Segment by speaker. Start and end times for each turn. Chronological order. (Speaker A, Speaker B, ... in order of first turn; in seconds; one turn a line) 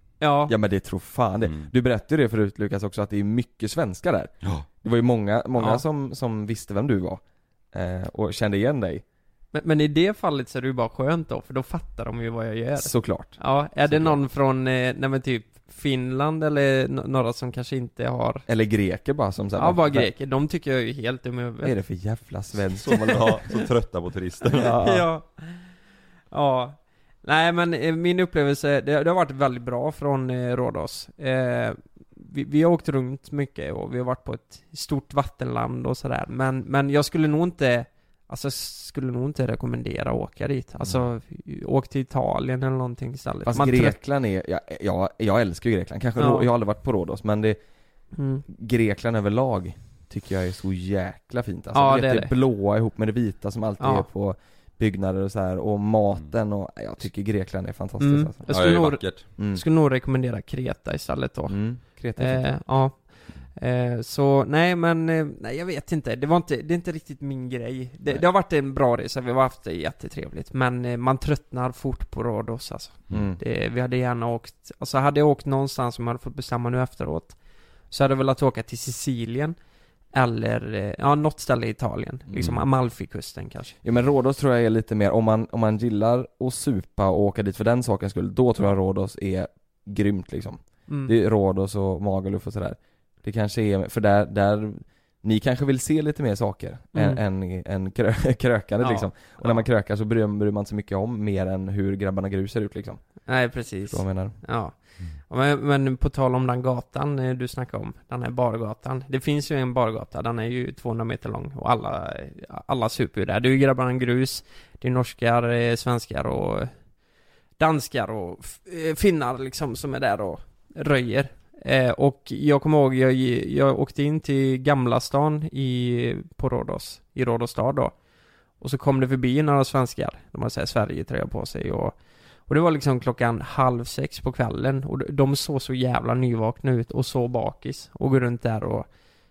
Speaker A: 0.2-0.5
Speaker B: 0.5-9.0
Speaker A: 9.5-18.4
Speaker B: 12.8-14.2
Speaker B: 18.5-20.1
Speaker A: 19.6-21.7
Speaker B: 21.6-23.4
Speaker C: 22.9-24.7
Speaker B: 24.5-25.1
Speaker A: 24.6-25.7
Speaker A: 26.3-44.0
Speaker B: 43.5-47.6
Speaker A: 46.2-46.5
Speaker A: 48.2-48.4
Speaker B: 48.5-58.4
Speaker A: 51.7-52.3
Speaker A: 53.8-54.1
Speaker A: 58.0-77.4
Speaker C: 58.5-59.3
Speaker B: 59.4-59.6
Speaker B: 61.5-62.5
Speaker B: 73.1-73.4
Speaker A: 77.9-79.6
Speaker A: 80.1-83.8
Speaker B: 82.3-82.6
Speaker B: 83.8-103.2
Speaker A: 90.9-91.1
Speaker A: 96.9-97.2
Speaker A: 98.8-99.7
Speaker A: 103.3-116.7
Speaker B: 103.8-104.4
Speaker A: 117.6-128.0
Speaker A: 128.6-138.9